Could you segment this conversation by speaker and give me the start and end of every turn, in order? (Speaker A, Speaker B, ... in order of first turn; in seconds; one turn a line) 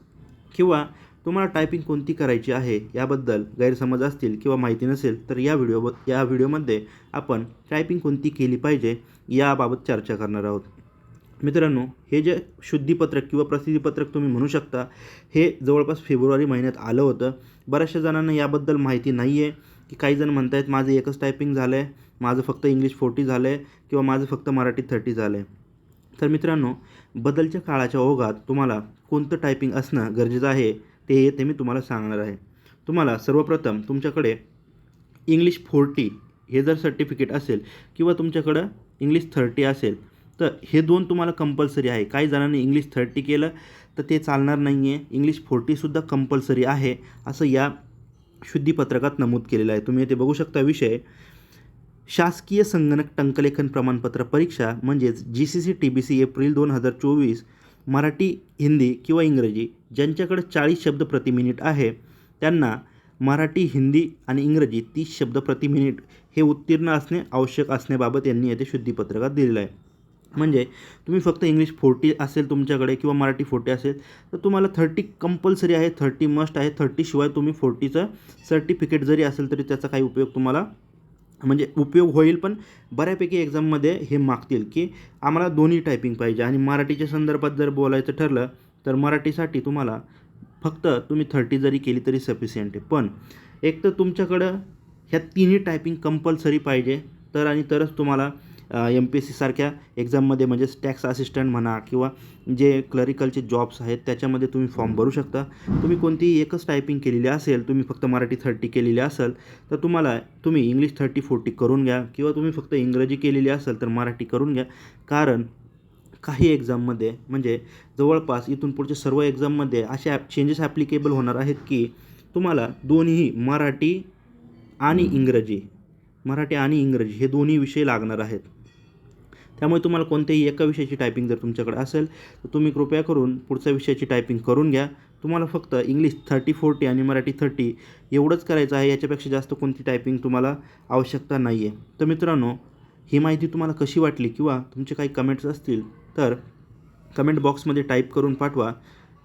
Speaker A: 0.5-10.7
Speaker A: 11.4-25.5
Speaker A: 26.2-34.4
Speaker A: 35.3-47.7
Speaker A: 48.4-51.0
Speaker A: 52.1-69.7
Speaker A: 70.3-80.7
Speaker A: 81.4-90.0
Speaker A: 90.6-115.5
Speaker A: 116.2-124.1
Speaker A: 124.8-125.7
Speaker A: 126.2-128.5
Speaker A: 129.6-146.4
Speaker A: 147.1-148.8